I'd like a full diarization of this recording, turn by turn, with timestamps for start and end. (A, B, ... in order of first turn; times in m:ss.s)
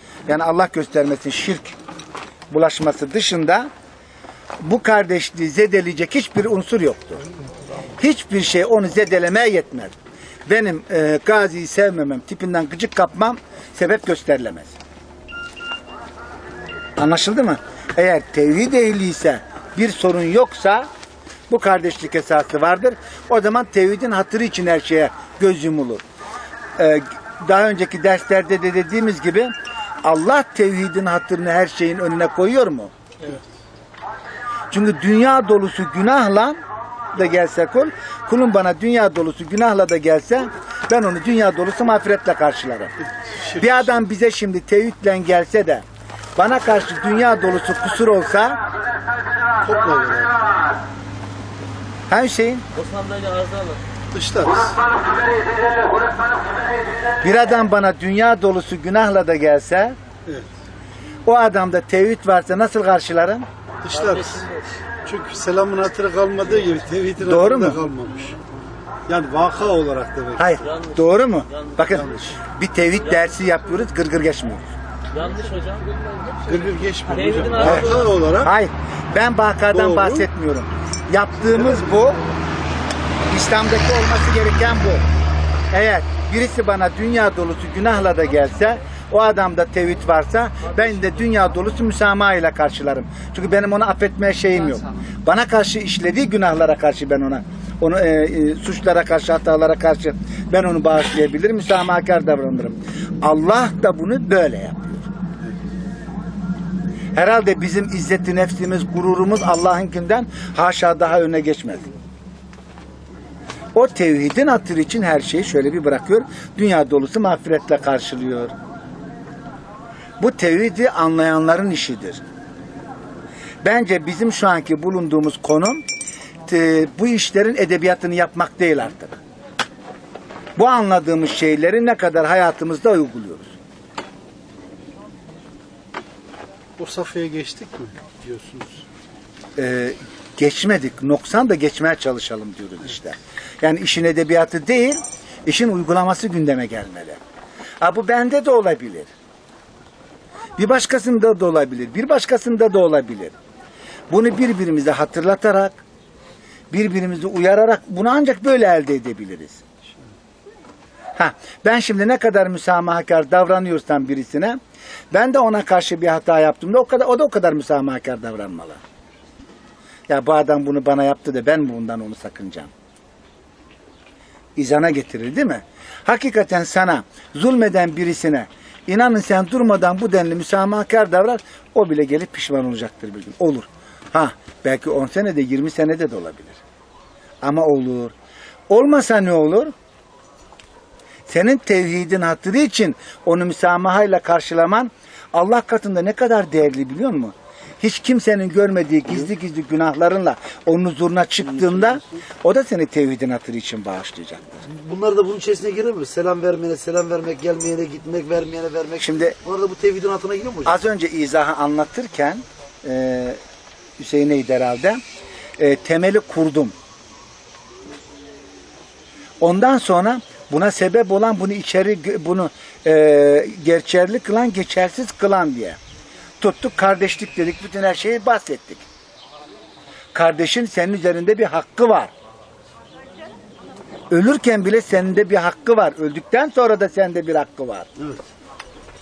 0:00.3-0:01.8 A
0:02.5-0:03.7 A
0:04.6-0:07.2 A
0:08.0-0:09.9 A
0:10.5-0:14.8 A
0:17.0-0:20.9 A
0:21.5-0:26.0 A
0:26.8-0:32.9 A
0:34.7-0:36.6 A
0:37.1-0:42.9 A
0:43.3-0:44.1 B
0:43.6-0:45.8 A
0:46.4-0:48.6 A
0:49.6-0:50.4 B
0:52.1-0:52.6 A
0:52.7-0:53.8 C
0:54.1-0:54.8 B
0:57.2-1:00.0 A
1:00.3-1:00.5 B
1:01.3-1:03.5 A
1:03.8-1:04.5 B
1:03.9-1:04.6 C
1:05.0-1:08.4 B
1:07.2-1:07.8 A
1:09.1-1:10.6 B
1:10.4-1:14.7 A
1:10.6-1:12.4 C
1:12.0-1:12.4 B
1:13.1-1:13.5 C
1:15.1-1:18.2 C
1:16.4-1:18.5 B
1:17.6-1:22.2 A
1:19.6-1:20.3 B
1:23.3-1:25.1 A
1:25.7-1:45.1 A
1:31.0-1:31.4 C
1:47.2-1:51.9 A
1:53.7-1:58.6 A
2:00.2-2:02.2 A
2:03.6-2:05.8 A
2:06.5-2:09.2 A
2:10.6-2:13.5 A
2:16.8-2:18.8 B
2:19.6-2:27.2 A
2:27.8-2:29.1 A
2:30.6-2:33.4 A
2:34.1-2:35.8 A
2:36.7-2:39.6 A
2:41.2-2:44.6 A
2:45.1-2:48.8 A
2:50.1-2:52.7 A
2:54.6-3:06.6 A
3:07.4-3:08.1 A
3:08.7-3:09.7 A
3:11.3-3:24.6 A
3:24.6-3:30.8 D
3:29.0-3:29.4 A
3:30.7-3:33.4 A
3:34.0-3:35.0 A
3:35.6-3:36.8 A
3:39.4-3:45.8 A
3:46.4-3:48.8 A
3:50.1-3:52.1 A
3:54.1-3:57.9 A
3:58.0-3:58.3 D